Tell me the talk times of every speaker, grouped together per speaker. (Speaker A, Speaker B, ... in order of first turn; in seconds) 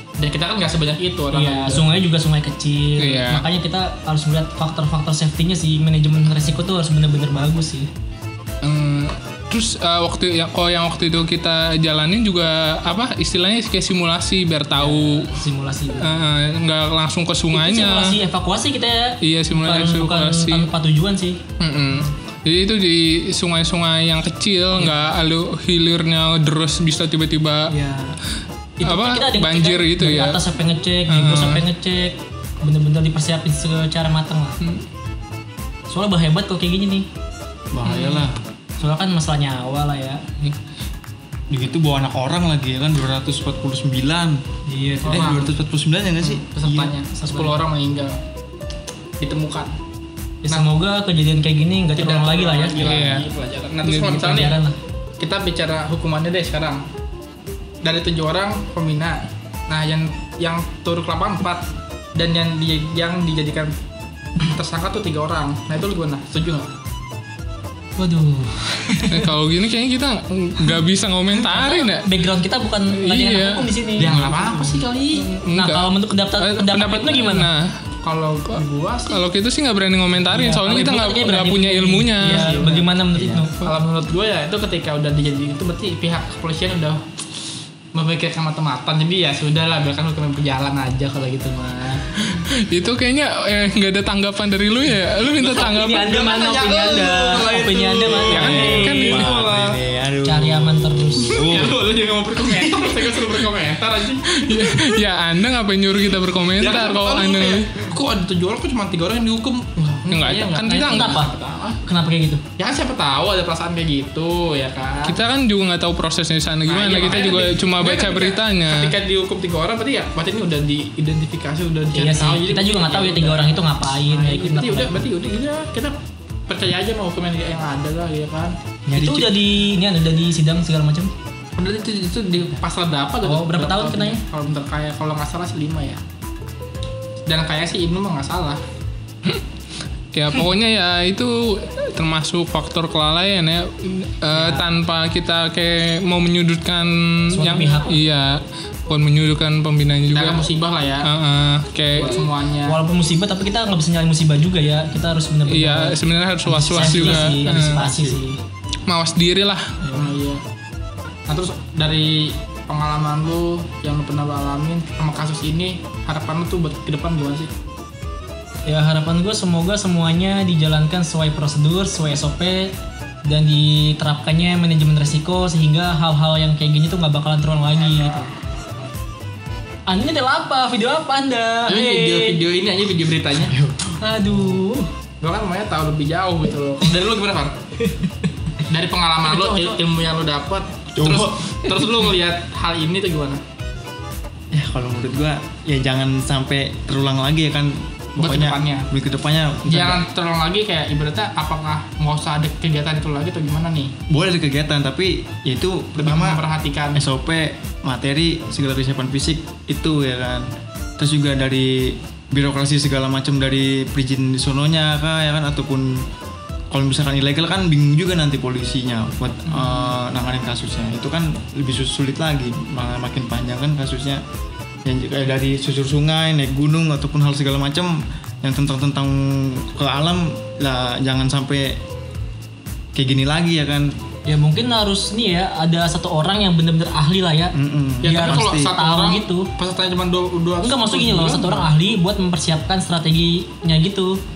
Speaker A: 0.2-2.0, 45.0-45.5, 46.2-48.2, 49.2-49.7, 52.0-54.6, 55.2-56.8, 57.8-63.7, 64.4-66.7, 74.0-75.3, 78.0-79.2, 82.2-82.8, 83.6-87.0, 87.9-92.2, 95.5-99.8, 101.3-104.8, 106.6-111.8, 112.6-115.2, 116.7-125.9, 126.5-128.6, 131.6-136.0, 137.3-138.6, 150.1-151.1, 151.9-152.8, 159.9-160.4, 161.3-167.5, 181.7-183.5, 185.2-187.6, 188.6-193.4, 198.2-198.9, 199.7-203.9, 206.0-207.0, 219.5-219.9, 238.0-241.7
Speaker B: 1.3-7.9, 14.8-16.2, 17.5-21.4, 24.8-25.1, 27.7-28.1, 28.8-34.6, 35.9-37.1, 37.8-38.2, 38.8-40.2, 44.7-45.4, 47.1-47.6, 50.4-53.1, 53.9-54.7, 68.0-69.3, 71.4-74.1, 75.5-77.5, 80.3-83.5, 95.4-99.2, 100.2-101.4, 110.6-111.3, 111.8-112.4, 121.9-125.0, 128.9-131.1, 133.2-134.2, 144.3-144.6, 147.3-148.0, 152.6-158.4, 168.7-172.7, 173.2-178.3, 179.9-182.4, 184.0-184.9, 189.3-189.8, 234.2-239.5, 240.6-244.2
Speaker C: 3.0-3.5, 8.6-15.3, 16.0-18.2, 19.2-20.7, 21.6-27.7, 28.8-30.4, 31.1-31.6, 52.8-53.2, 53.9-54.2, 69.0-72.0, 73.0-74.2, 75.2-77.8, 78.5-82.6, 92.3-96.1, 98.3-99.3, 104.3-107.7, 110.1-111.2, 115.0-118.9, 140.1-150.4, 151.0-152.2, 155.5-157.8, 158.9-159.8
Speaker D: 37.7-38.4, 41.5-44.4, 45.0-46.9, 74.0-74.8, 83.1-83.5, 98.3-101.8, 128.9-129.3, 156.7-158.2, 183.5-183.9, 190.9-191.7, 194.5-200.0, 204.1-206.4, 206.9-210.4, 211.0-216.1, 216.7-224.2, 224.8-231.8, 232.9-233.9, 237.5-238.7